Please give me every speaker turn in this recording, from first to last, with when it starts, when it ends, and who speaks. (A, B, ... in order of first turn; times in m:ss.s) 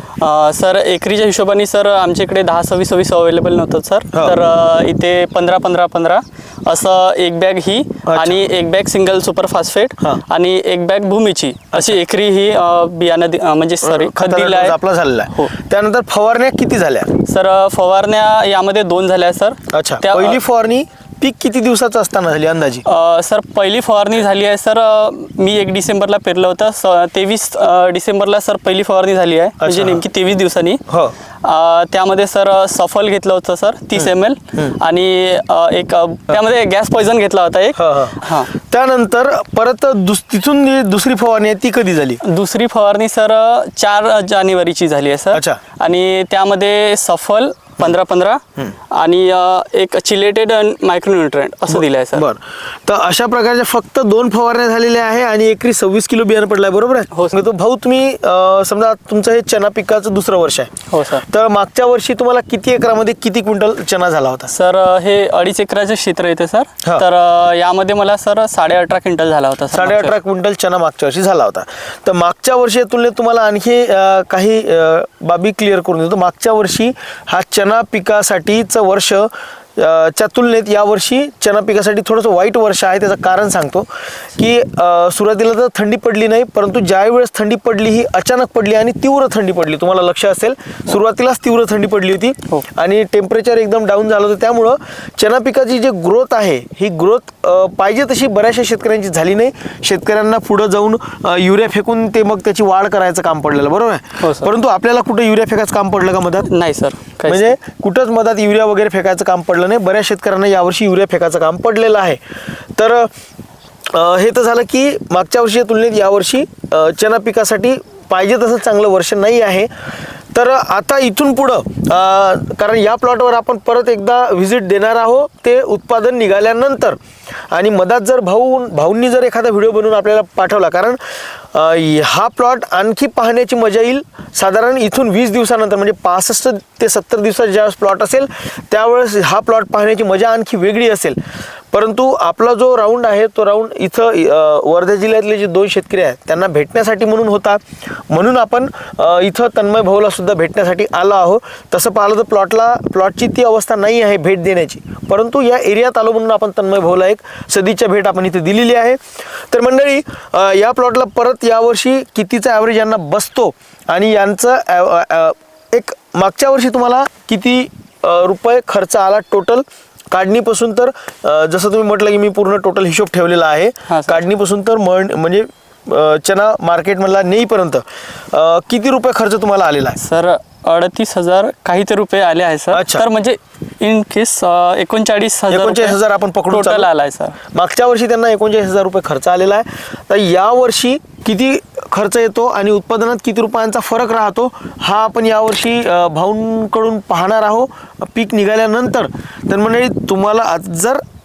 0:00.2-0:14.8 A
0:08.0-0:08.4 B
0:11.7-0:12.0 B
0:13.8-0:17.1 B
0:17.2-0:20.4 A
0:19.7-0:22.8 B
0:22.8-0:30.8 A
0:29.6-0:30.0 B
0:30.9-0:31.1 B
0:31.4-0:38.5 A
0:37.8-0:42.2 B
0:42.2-0:52.2 A
0:45.3-0:45.6 B
0:51.7-1:04.5 B
1:00.9-1:01.2 A
1:04.5-1:10.1 A
1:09.7-1:46.5 B
1:44.2-1:44.5 A
1:46.4-1:47.6 A
1:47.3-1:52.2 B
1:52.8-1:53.1 B
1:53.9-1:59.7 B
2:00.3-2:07.0 B
2:07.5-2:11.0 B
2:11.5-2:21.2 B
2:21.7-3:00.0 B
2:53.9-2:54.2 A
3:00.0-3:06.0 A
3:02.7-3:03.0 B
3:05.5-3:06.9 B
3:06.5-3:07.4 A
3:07.5-3:21.0 B